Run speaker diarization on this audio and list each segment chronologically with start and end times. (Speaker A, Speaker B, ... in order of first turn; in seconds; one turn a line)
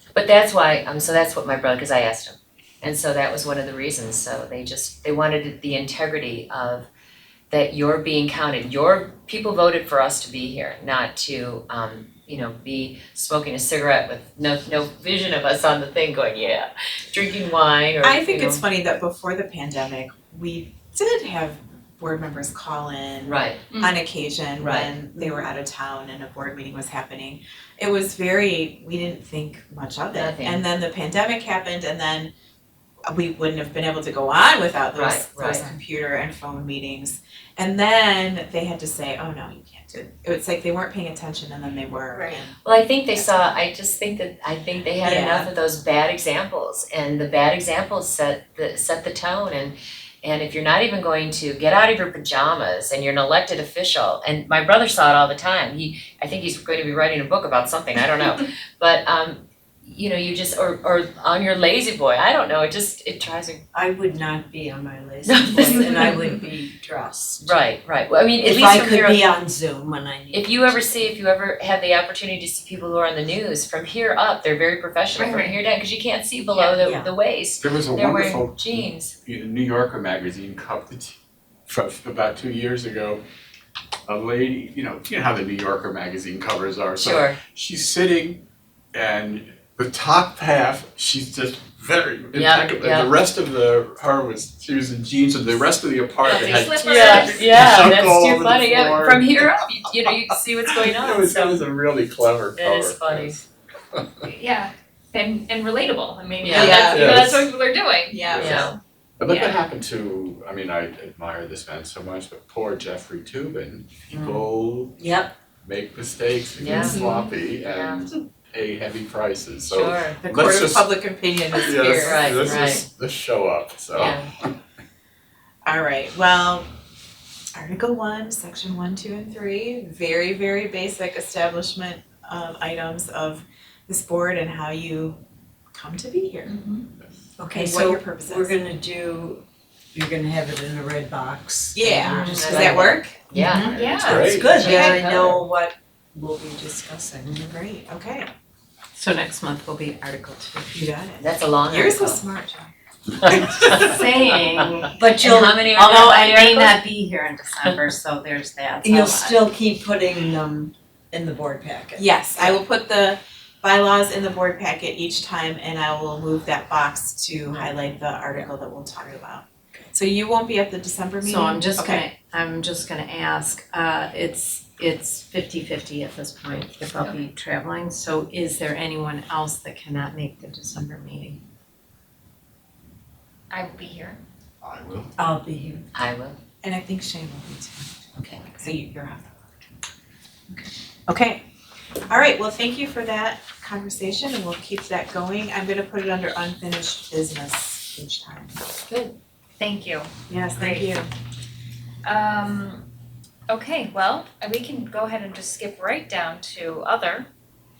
Speaker A: 0.1-6.9
Speaker A: 7.5-18.6
Speaker B: 18.0-32.3
Speaker A: 23.2-23.6
Speaker C: 23.7-24.0
Speaker A: 24.6-25.5
Speaker A: 30.1-30.6
Speaker B: 33.1-42.5
Speaker A: 34.9-35.6
Speaker A: 42.6-63.6
Speaker B: 45.0-45.5
Speaker D: 63.7-67.6
Speaker A: 65.2-66.3
Speaker A: 67.4-69.3
Speaker D: 68.4-71.0
Speaker A: 70.3-79.1
Speaker C: 75.2-75.5
Speaker C: 76.5-76.8
Speaker D: 76.8-77.1
Speaker E: 77.6-83.2
Speaker E: 84.1-88.4
Speaker A: 87.0-87.4
Speaker E: 88.9-99.8
Speaker A: 92.3-93.1
Speaker C: 96.2-97.9
Speaker A: 96.3-101.6
Speaker E: 100.7-104.3
Speaker A: 102.6-103.4
Speaker C: 104.2-108.8
Speaker A: 106.4-106.9
Speaker B: 106.5-107.2
Speaker E: 106.7-107.5
Speaker B: 108.1-108.7
Speaker E: 108.3-115.0
Speaker A: 108.4-108.7
Speaker A: 114.1-114.4
Speaker D: 115.0-115.3
Speaker E: 115.6-120.9
Speaker A: 116.6-117.0
Speaker B: 116.7-117.2
Speaker A: 117.6-118.0
Speaker A: 119.7-120.2
Speaker B: 120.2-122.7
Speaker A: 121.6-122.8
Speaker E: 121.6-124.5
Speaker A: 123.9-124.3
Speaker B: 125.6-126.7
Speaker B: 127.5-135.2
Speaker B: 135.7-136.6
Speaker C: 136.4-136.9
Speaker D: 137.4-143.0
Speaker B: 137.5-138.5
Speaker B: 141.7-143.9
Speaker A: 142.0-143.8
Speaker C: 143.7-144.7
Speaker E: 143.8-144.7
Speaker D: 143.8-147.4
Speaker B: 144.6-145.1
Speaker A: 144.6-145.3
Speaker B: 147.3-148.3
Speaker F: 148.9-150.9
Speaker B: 150.7-152.7
Speaker A: 151.2-152.2
Speaker A: 153.2-154.1
Speaker E: 153.4-153.8
Speaker F: 153.8-155.0
Speaker D: 154.9-156.2
Speaker A: 155.1-156.8
Speaker F: 155.7-159.4
Speaker D: 158.8-162.6
Speaker B: 161.9-172.0
Speaker F: 171.2-181.4
Speaker C: 177.0-177.2
Speaker C: 183.5-184.2
Speaker E: 184.6-185.1
Speaker D: 185.2-185.8
Speaker A: 185.9-186.4
Speaker B: 186.6-189.3
Speaker A: 188.2-188.5
Speaker B: 190.5-191.4
Speaker B: 192.1-198.6
Speaker A: 198.9-199.1
Speaker C: 199.6-201.0
Speaker B: 200.3-201.1
Speaker C: 202.0-202.9
Speaker C: 203.5-207.3